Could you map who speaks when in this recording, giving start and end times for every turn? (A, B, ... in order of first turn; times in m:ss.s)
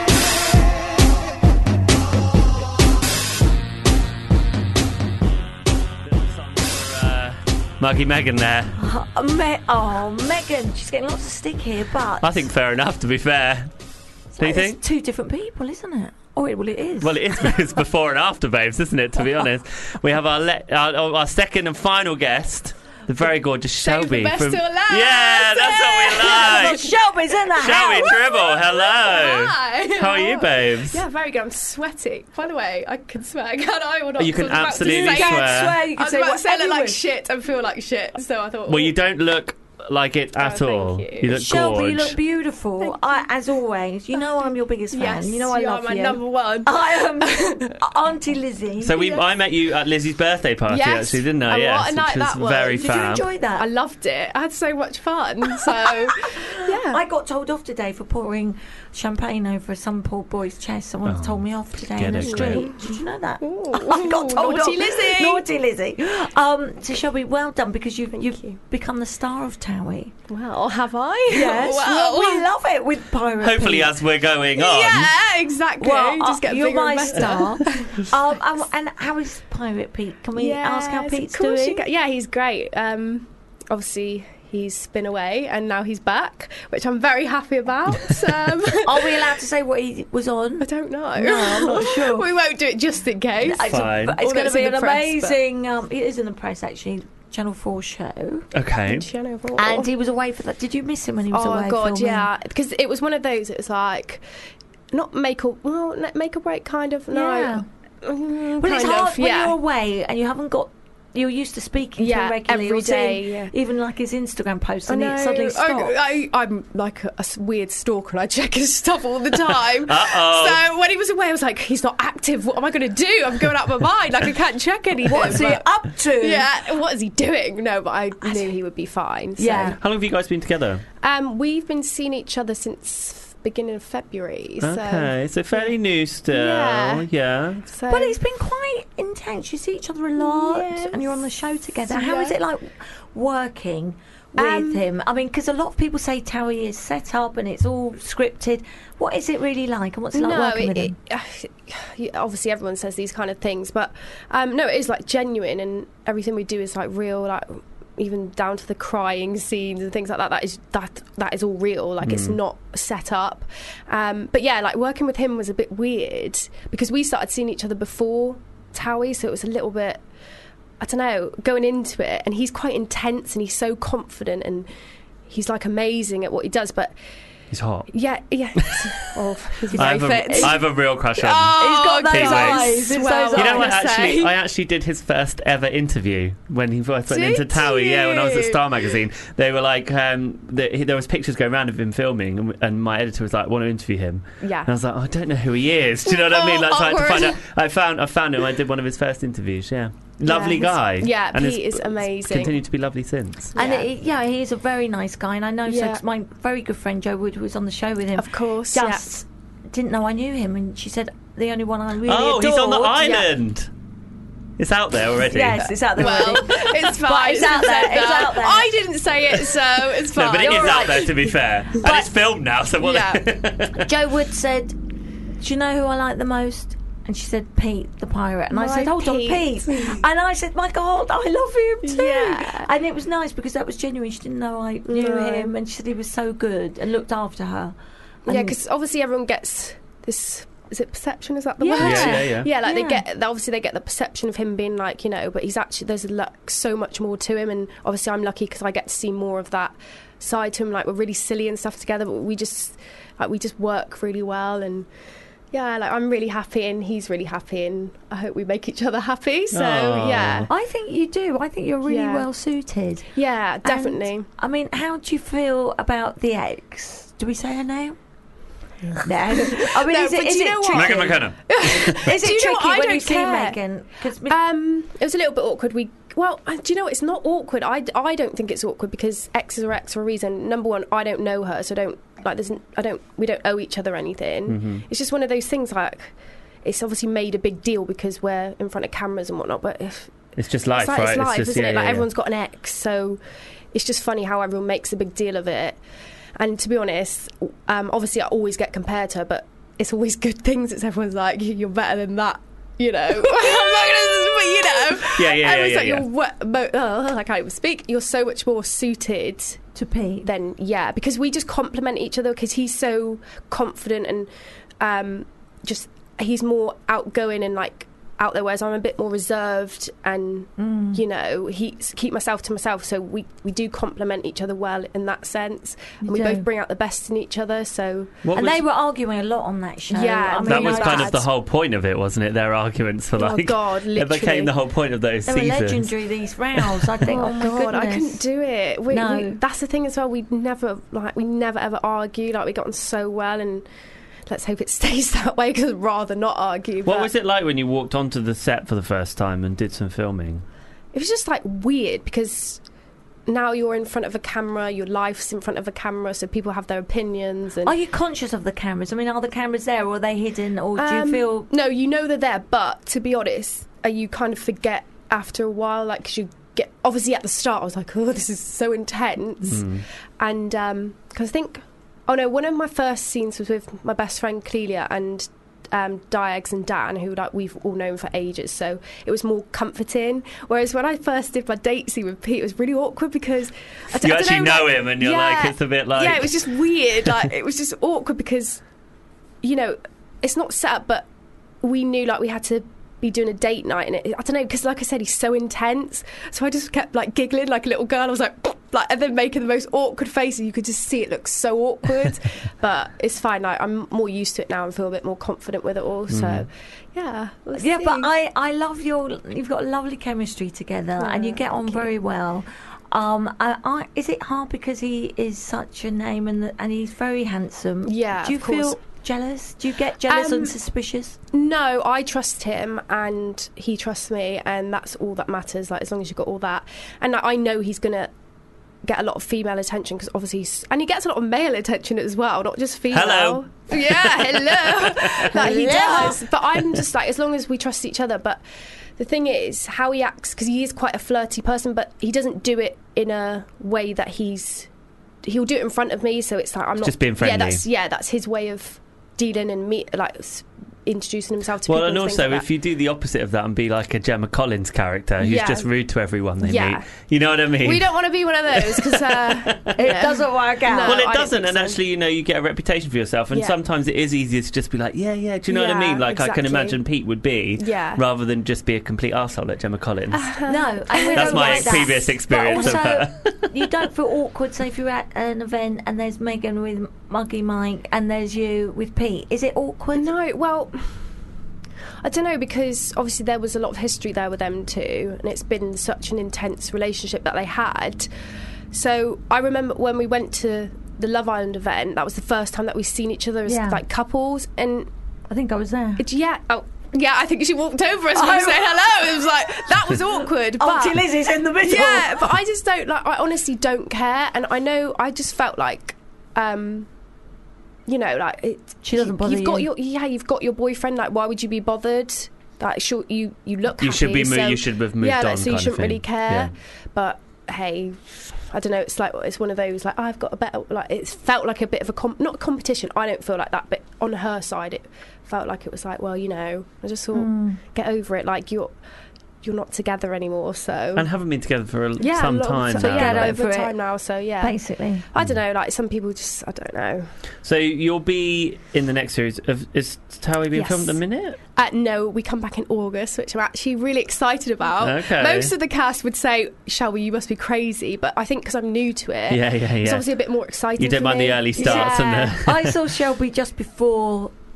0:06.0-0:08.8 A
0:08.8-0:12.4 B
0:12.2-0:13.7 A
0:14.3-0:17.2 B
0:14.4-0:14.8 A
0:17.0-0:26.9 A
0:23.8-0:26.9 C
0:26.3-0:28.2 B
0:27.6-0:31.0 A
0:27.7-0:39.0 C
0:34.2-0:35.8 A
0:34.8-0:37.0 B
0:38.7-0:42.2 A
0:40.4-0:41.3 C
0:41.2-0:49.2 B
0:42.8-0:43.2 C
0:44.9-0:47.8 C
0:48.8-0:53.3 A
0:50.7-0:57.0 C
0:52.8-0:53.7 B
0:56.5-1:10.1 B
1:01.0-1:02.7 A
1:02.2-1:05.4 C
1:08.1-1:08.6 C
1:10.3-1:12.5 C
1:11.3-1:13.9 B
1:13.4-1:15.1 A
1:14.6-1:18.0 C
1:15.8-1:21.9 B
1:20.4-1:29.3 C
1:28.8-1:32.3 B
1:30.6-1:35.4 C
1:33.4-1:38.5 B
1:33.7-1:34.2 A
1:38.5-1:39.1 A
1:38.9-1:39.9 C
1:39.6-1:42.3 B
1:41.3-1:44.2 C
1:44.9-1:49.6 C
1:47.1-1:47.6 B
1:48.6-1:56.0 B
1:52.0-1:53.5 C
1:54.9-2:09.8 C
1:59.4-2:00.6 A
2:05.0-2:06.5 B
2:08.2-2:08.5 B
2:09.4-2:09.8 B
2:09.8-2:10.8 A
2:11.0-2:15.7 C
2:14.6-2:17.6 A
2:16.3-2:17.0 C
2:17.6-2:18.2 C
2:17.9-2:30.9 B
2:20.2-2:21.1 C
2:21.9-2:22.4 C
2:24.4-2:24.8 C
2:30.1-2:50.0 C
2:42.0-2:42.4 A
2:50.8-2:54.7 C
2:55.3-2:56.9 C
2:57.5-2:57.9 A
2:57.9-3:04.4 C
2:58.6-2:58.9 A
2:59.7-3:00.6 B
2:59.7-3:23.5 A
3:01.6-3:03.8 B
3:07.1-3:08.9 C
3:14.4-3:14.7 C
3:16.0-3:17.4 C
3:20.2-3:22.6 C
3:23.5-3:23.9 C
3:23.5-3:33.2 B
3:25.7-3:26.0 C
3:28.2-3:29.2 C
3:32.1-3:33.7 A
3:34.6-3:35.7 A
3:35.3-3:38.7 B
3:35.6-3:41.2 C
3:40.0-3:43.8 A
3:40.4-3:41.1 B
3:41.8-3:42.1 B
3:42.8-3:43.2 C
3:43.8-3:44.8 B
3:45.4-3:57.7 B
3:48.5-3:50.0 C
3:51.8-3:52.7 C
3:54.9-3:55.5 C
3:58.2-3:58.6 B
3:58.2-4:14.9 C
4:01.6-4:03.0 B
4:01.8-4:02.5 A
4:15.5-4:20.5 C
4:19.5-4:20.5 A
4:20.5-4:23.1 B
4:21.9-4:22.3 C
4:23.1-4:24.3 C
4:23.6-4:28.0 B
4:29.0-4:31.3 B
4:29.3-4:33.6 C
4:30.7-4:32.0 A
4:31.8-4:34.4 B
4:34.3-4:46.1 C
4:44.5-4:44.8 A
4:46.6-4:50.1 C
4:50.4-4:52.1 A
4:50.7-4:53.2 C
4:53.7-4:55.8 C
4:56.4-5:09.6 C
5:05.0-5:06.1 A
5:09.7-5:10.3 B
5:10.2-5:28.2 C
5:20.6-5:21.0 B
5:26.0-5:26.5 B
5:28.2-5:28.6 A
5:28.3-5:31.2 B
5:29.9-5:31.3 C
5:30.4-5:35.9 A
5:33.1-5:34.6 C
5:35.3-5:38.2 B
5:36.6-5:37.0 A
5:37.1-5:43.6 C
5:38.9-5:39.4 B
5:44.3-5:47.1 C
5:46.8-5:50.4 A
5:50.9-5:52.6 C
5:53.3-5:57.7 C
5:57.6-6:01.5 B
6:00.8-6:28.6 C
6:09.5-6:09.8 A
6:24.0-6:27.3 A
6:29.4-6:31.1 C
6:31.6-6:48.1 C
6:46.1-6:46.5 A
6:47.6-7:01.2 B
6:51.0-6:51.9 C
6:57.8-6:58.8 C
7:00.0-7:00.5 C
7:01.3-7:08.1 C
7:08.8-7:18.4 C
7:12.9-7:16.8 A
7:15.3-7:16.2 B
7:19.0-7:24.7 C
7:25.2-7:32.5 C
7:26.8-7:27.6 A
7:31.6-7:37.9 A
7:35.2-7:35.7 C
7:36.4-7:36.9 C
7:37.6-7:41.8 C
7:38.5-7:39.7 A
7:39.8-7:41.0 B
7:40.8-7:50.3 A
7:43.3-7:43.6 C
7:45.5-7:46.8 C
7:47.6-7:48.0 C
7:50.1-7:52.8 C
7:50.5-8:00.1 B
7:51.1-7:53.5 A
7:59.9-8:00.8 C
8:02.0-8:08.1 C
8:08.7-8:14.9 C
8:13.4-8:13.8 B
8:15.3-8:16.0 B
8:16.0-8:21.0 C
8:18.1-8:19.2 B
8:19.9-8:22.3 B
8:21.6-8:26.9 C
8:27.9-8:48.7 C
8:28.8-8:29.7 B
8:33.8-8:36.5 A
8:47.1-8:47.6 B
8:49.4-8:51.1 C
8:51.0-8:53.4 A
8:52.0-8:54.6 C
8:52.8-8:53.7 B
8:54.4-8:55.0 B
8:55.1-8:57.1 C
8:57.4-9:01.4 A
9:00.5-9:01.0 C
9:01.6-9:12.3 C
9:04.8-9:05.5 A
9:09.3-9:10.1 A
9:10.8-9:12.7 A
9:11.6-9:14.3 B